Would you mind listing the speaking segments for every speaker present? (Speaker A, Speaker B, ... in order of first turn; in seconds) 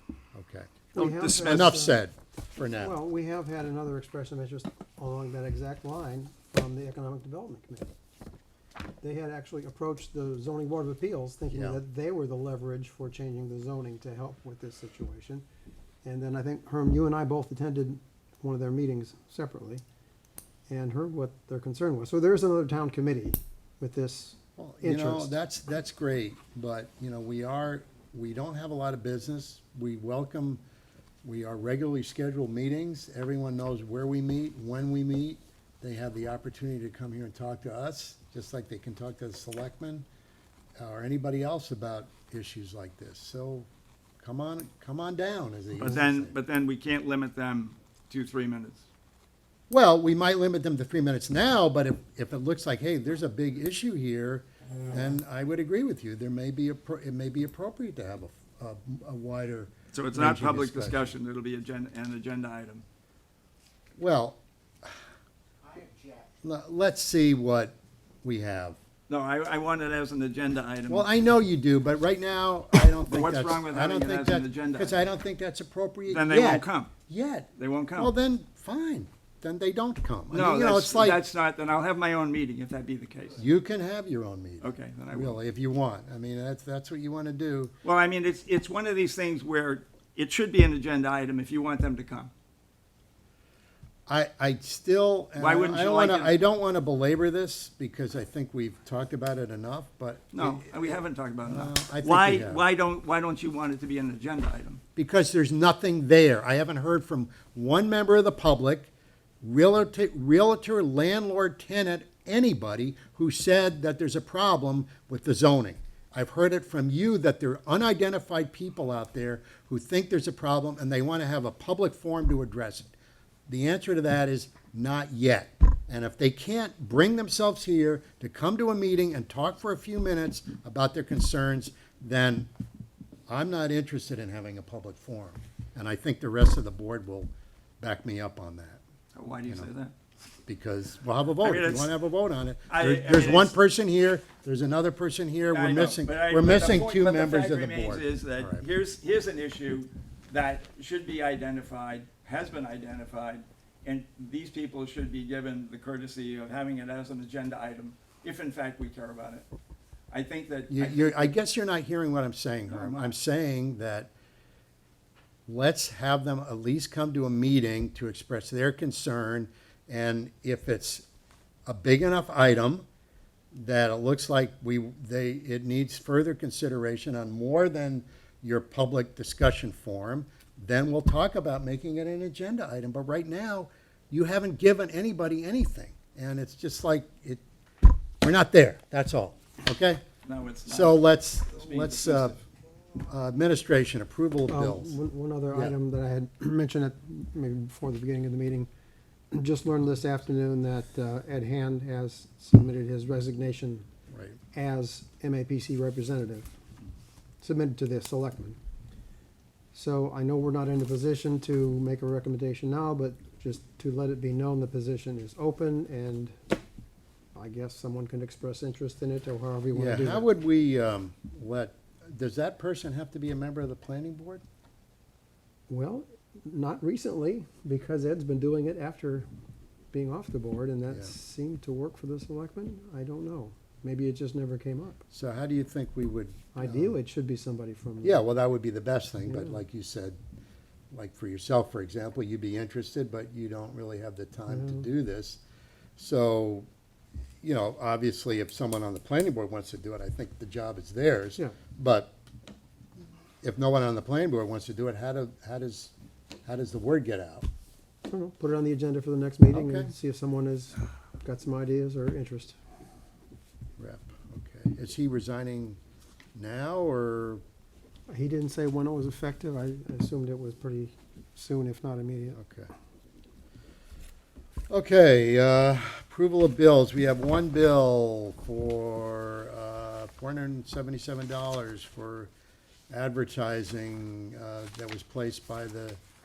Speaker A: 0.3-0.7, 1.4-3.0, 11.5-11.8, 24.6-30.6, 31.2-40.0, 40.8-43.7, 44.2-46.4, 49.7-61.1, 64.0-64.9, 66.4-68.8, 70.9-81.2, 83.4-87.7, 94.1-102.6, 105.0-108.9, 109.4-122.9, 123.5-132.5, 133.3-138.8, 140.4-148.7, 160.7-164.1, 165.5-171.0, 171.7-172.8, 173.5-187.4, 188.2-190.0, 190.7-192.4, 193.0-195.0, 204.1-204.4, 219.7-224.4, 235.1-237.0, 238.0-240.2, 240.9-245.4, 246.0-246.7, 247.4-252.1, 253.4-255.9, 256.4-257.4, 259.5-259.9, 263.8-265.8, 266.4-267.4, 272.4-272.7, 274.7-282.3, 282.9-286.0
Speaker B: 0.9-2.0, 2.8-7.9, 9.0-15.4, 16.0-19.8, 20.7-25.4, 194.5-198.7, 199.3-203.8, 204.5-206.5, 207.4-208.6, 209.7-216.4, 217.3-220.3, 225.7-229.3, 229.9-235.0, 236.5-238.2, 239.3-239.6, 244.5-244.9, 258.1-262.6, 268.1-272.4
Speaker C: 0.9-1.8, 45.8-48.8, 59.9-62.8, 69.1-71.1, 72.8-75.0, 76.1-76.9, 77.5-78.1, 80.3-83.4, 84.6-85.4, 87.8-92.3, 95.4-96.3, 100.3-104.8, 139.1-139.9, 141.4-141.9, 142.7-143.5, 145.5-159.4, 160.1-161.3, 162.7-163.1, 190.2-192.4